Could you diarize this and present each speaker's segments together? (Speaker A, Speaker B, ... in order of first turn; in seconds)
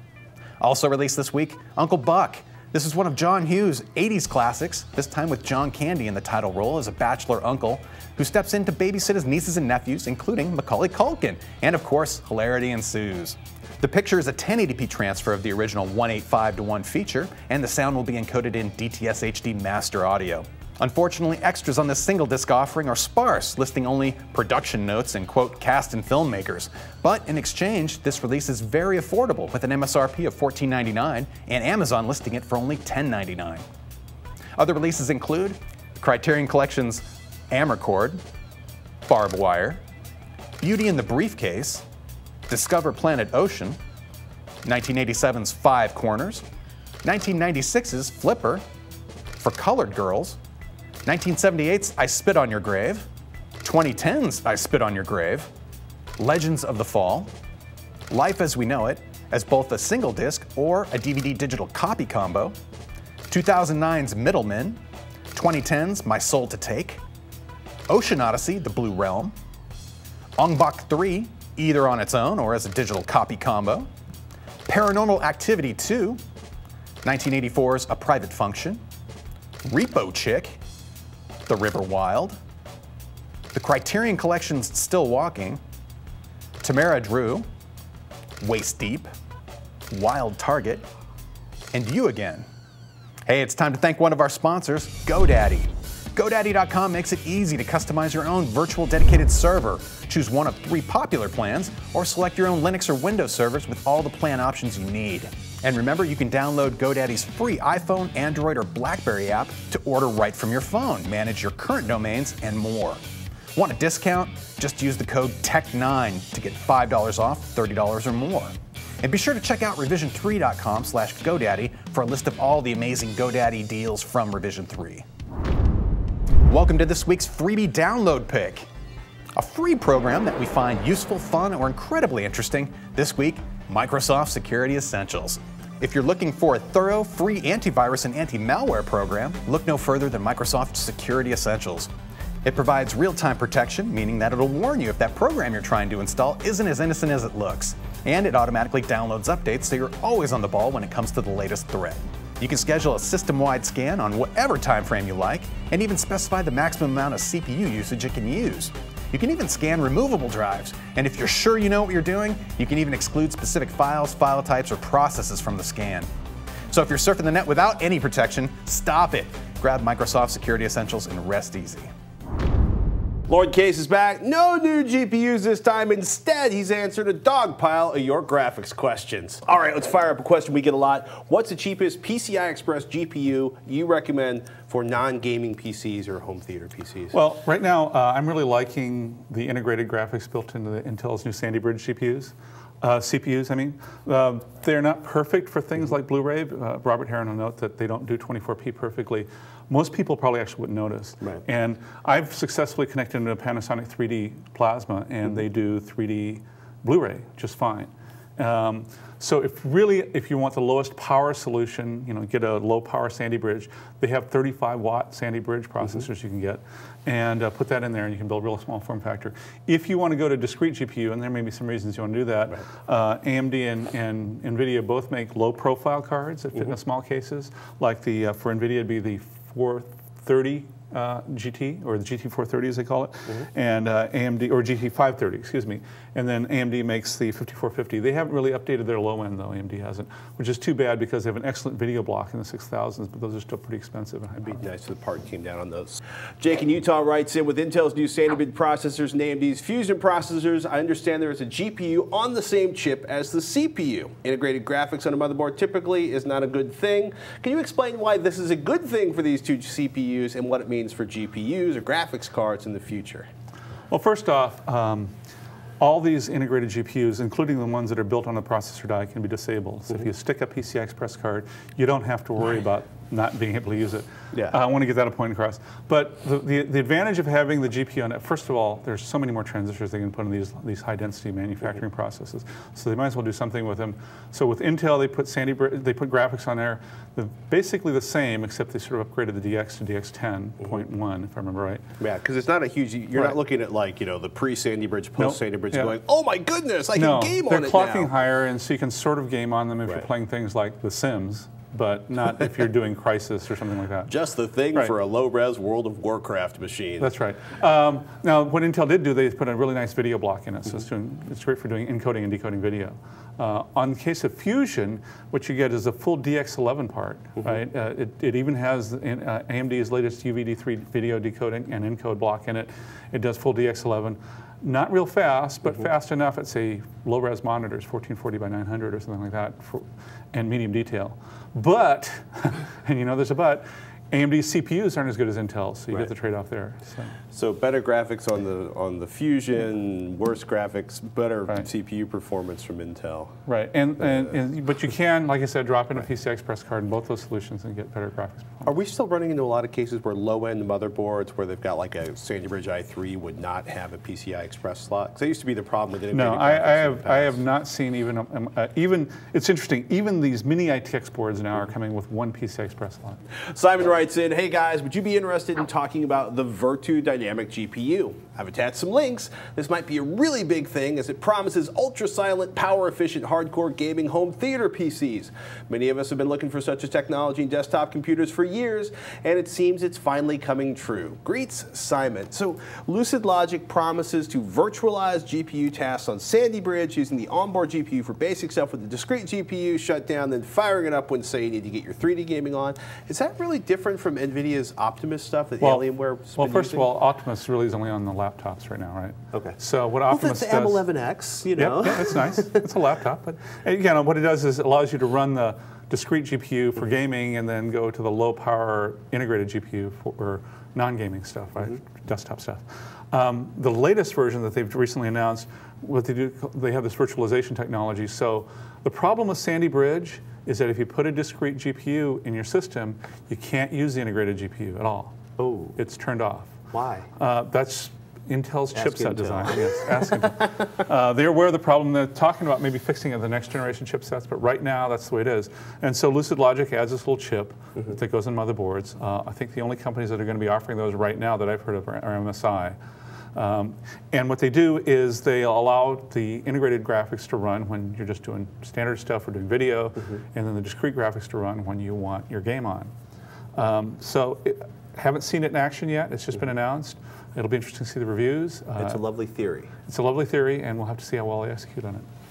Speaker A: 0.6-33.6, 34.6-38.2, 39.1-39.8, 40.6-41.8, 42.5-43.8, 44.6-46.5, 47.0-48.6, 49.4-50.4, 51.1-53.1, 53.6-55.5, 56.2-57.3, 58.1-62.5, 63.3-64.8, 65.3-67.0, 67.9-69.3, 70.4-73.9, 74.7-76.2, 77.0-78.8, 79.7-80.6, 81.5-82.4, 83.5-85.6, 86.6-87.5, 88.4-89.1, 89.9-90.8, 91.7-92.5, 93.3-113.0, 113.5-125.0, 126.5-128.7, 129.3-141.9, 142.4-166.1, 166.7-171.9
Speaker B: 173.3-187.2, 244.4-263.3, 292.0-298.1, 304.1-307.1, 337.3-343.3, 348.6-357.4, 363.5-396.9, 400.1-402.6, 425.4-425.8, 426.7-427.1, 428.7-429.9, 458.8-459.7
Speaker C: 187.1-244.6, 263.9-265.1, 265.8-291.8, 295.2-296.0, 297.0-304.1, 307.0-337.1, 343.5-348.7, 356.1-363.2, 396.4-400.8, 401.6-425.2, 425.8-426.5, 427.2-442.8, 443.4-452.9, 453.6-459.0, 459.9-462.1